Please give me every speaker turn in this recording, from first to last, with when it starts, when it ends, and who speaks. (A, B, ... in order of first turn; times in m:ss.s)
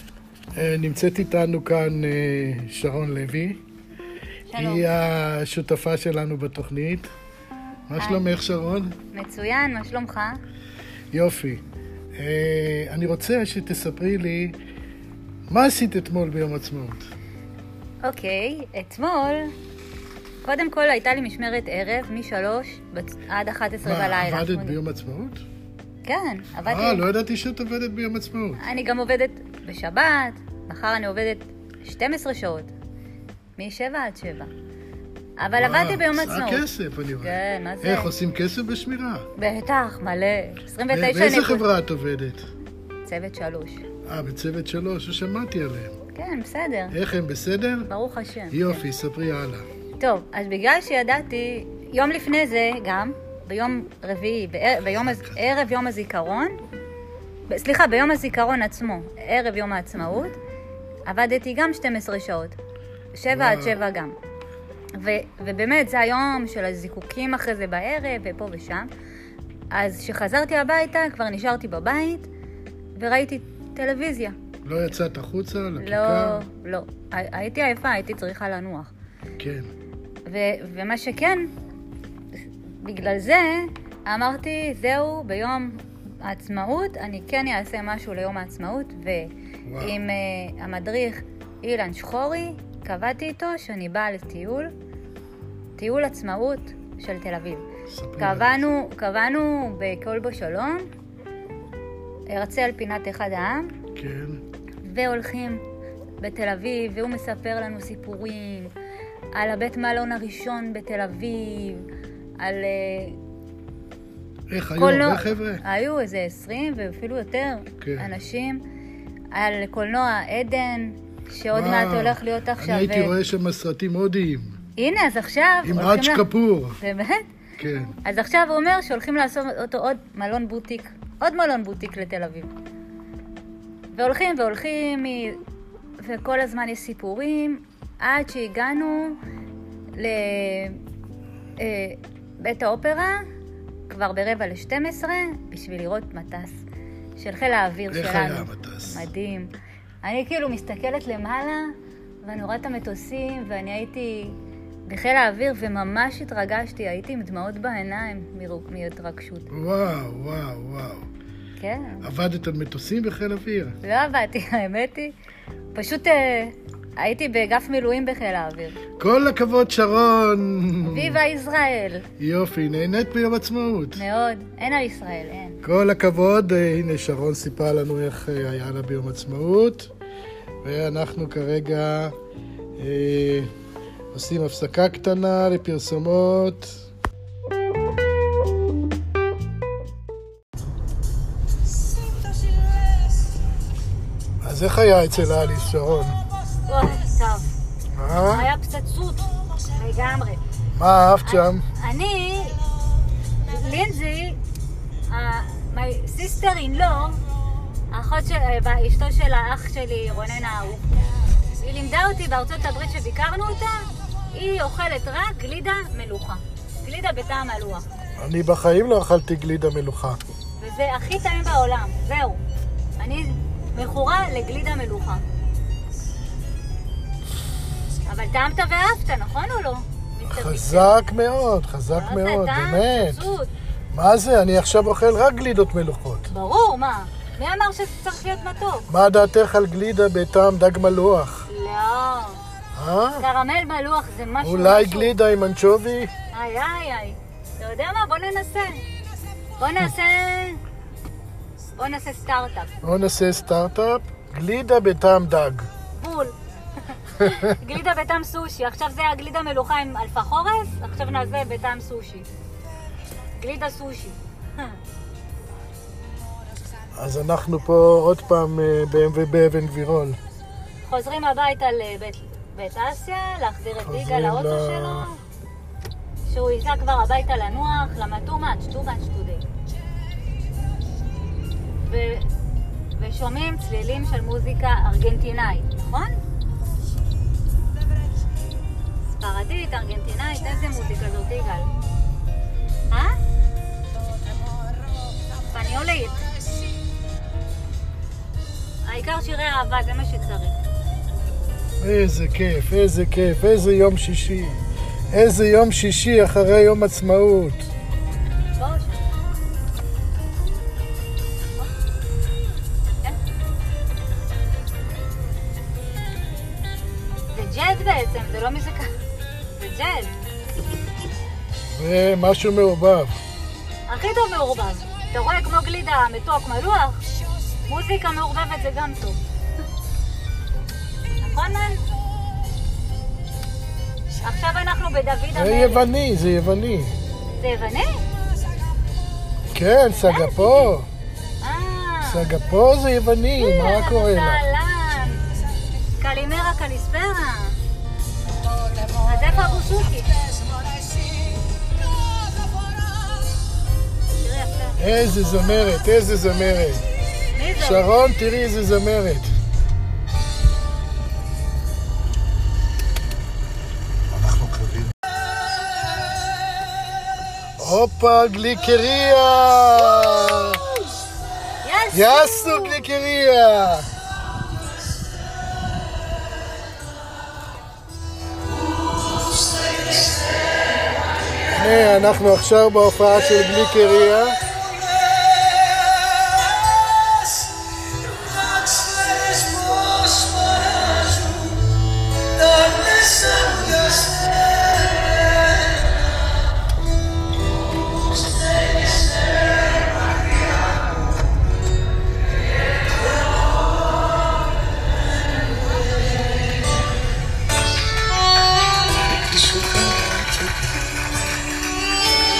0:00.5-0:03.6 A
0:04.5-0:04.9 B
0:04.5-0:07.1 A
0:07.9-0:09.0 A
0:08.0-0:08.3 B
0:09.1-0:10.4 B
0:11.1-0:11.6 A
0:12.2-0:14.6 A
0:15.5-0:17.1 A
0:18.0-0:19.5 B
0:20.4-0:24.8 B
0:23.8-0:25.4 A
0:26.0-0:27.0 B
0:26.6-0:28.6 A
0:28.6-0:32.7 B
0:33.6-0:34.5 B
0:35.4-0:36.6 B
0:35.6-0:39.3 A
0:37.2-0:38.1 B
0:39.4-0:41.6 B
0:40.9-0:42.4 A
0:43.0-0:43.8 B
0:44.0-0:45.9 A
0:46.1-0:47.0 B
0:46.9-0:47.9 A
0:47.9-0:48.8 B
0:48.5-0:49.7 A
0:50.0-0:56.5 B
0:55.0-0:55.4 A
0:57.5-1:00.4 B
1:01.0-1:02.6 B
1:03.1-1:04.1 B
1:03.3-1:03.8 A
1:05.0-1:08.9 B
1:09.7-1:12.3 B
1:13.0-1:14.3 B
1:14.6-1:16.4 A
1:15.8-1:18.9 B
1:19.4-1:19.7 A
1:20.2-1:21.5 B
1:22.8-1:34.7 B
1:29.6-1:30.0 A
1:35.8-1:37.6 B
1:37.9-1:38.7 A
1:38.2-1:40.8 B
1:42.3-1:43.7 B
1:43.9-1:44.4 A
1:44.8-1:45.6 B
1:46.2-1:48.7 B
1:49.3-1:51.9 B
1:52.4-1:53.2 B
1:54.5-1:55.6 A
1:54.8-1:58.6 B
1:57.8-1:58.1 A
1:59.3-2:03.2 B
2:01.5-2:04.6 A
2:04.8-2:06.2 B
2:05.6-2:06.8 A
2:06.8-2:07.3 B
2:07.6-2:08.0 A
2:08.0-2:12.5 B
2:13.9-2:15.4 B
2:16.0-2:19.2 B
2:20.0-2:20.8 B
2:21.6-2:23.2 B
2:23.9-2:26.5 B
2:27.2-2:29.5 B
2:27.9-2:29.0 A
2:30.0-2:31.7 B
2:32.2-2:39.5 B
2:39.5-2:41.1 A
2:41.6-2:42.1 B
2:42.0-2:43.8 A
2:43.8-2:45.1 B
2:45.7-2:48.8 B
2:49.0-2:51.2 A
2:50.8-2:52.1 B
2:52.2-2:54.0 A
2:53.9-2:55.6 B
2:55.6-2:59.9 A
3:00.6-3:02.1 A
3:02.8-3:03.5 A
3:04.1-3:06.8 A
3:14.4-3:16.2 A
3:16.7-3:17.5 B
3:17.9-3:18.5 A
3:18.2-3:20.4 B
3:20.8-3:21.6 A
3:21.2-3:22.6 B
3:23.4-3:24.4 B
3:25.1-3:27.2 B
3:27.9-3:31.0 B
3:31.6-3:37.8 B
3:38.2-3:40.2 A
3:40.6-3:42.4 B
3:43.0-3:45.2 B
3:48.1-3:50.9 B
3:50.2-3:53.3 A
3:51.9-3:53.5 B
3:53.9-3:56.3 A
3:56.3-3:58.9 B
3:58.9-4:01.4 A
4:01.5-4:02.4 B
4:02.7-4:03.2 A
4:03.2-4:05.2 B
4:04.4-4:06.1 A
4:06.3-4:08.8 B
4:09.6-4:10.6 B
4:11.8-4:12.7 B
4:12.8-4:15.7 A
4:15.9-4:16.3 B
4:16.9-4:22.3 B
4:23.4-4:24.8 B
4:27.0-4:30.2 A
4:30.8-4:35.2 B
4:33.8-4:35.1 A
4:36.2-4:39.4 B
4:41.8-4:42.3 B
4:43.0-4:46.1 B
4:49.2-4:51.7 B
4:55.5-4:56.2 B
4:58.8-5:00.5 B
5:01.8-5:04.6 A
5:05.1-5:07.7 A
5:08.6-5:09.0 B
5:17.3-5:18.9 B
5:19.6-5:20.1 B
5:21.7-5:23.2 A
5:23.9-5:27.0 B
5:27.7-5:29.2 B
5:31.2-5:31.8 B
5:34.2-5:35.9 B
5:35.3-5:37.0 A
5:37.4-5:37.9 B
5:39.5-5:40.9 A
5:39.9-5:40.7 B
5:41.4-5:42.3 B
5:42.0-5:44.4 A
5:43.4-5:45.3 B
5:46.0-5:47.6 B
5:48.9-5:50.1 B
5:54.2-5:54.8 B
5:54.8-5:56.8 A
5:57.3-5:57.9 B
5:57.6-5:59.3 A
6:04.1-6:04.9 A
6:07.6-6:10.7 A
6:11.6-6:12.8 B
6:11.9-6:13.9 A
6:21.5-6:24.4 A
6:49.5-6:49.8 A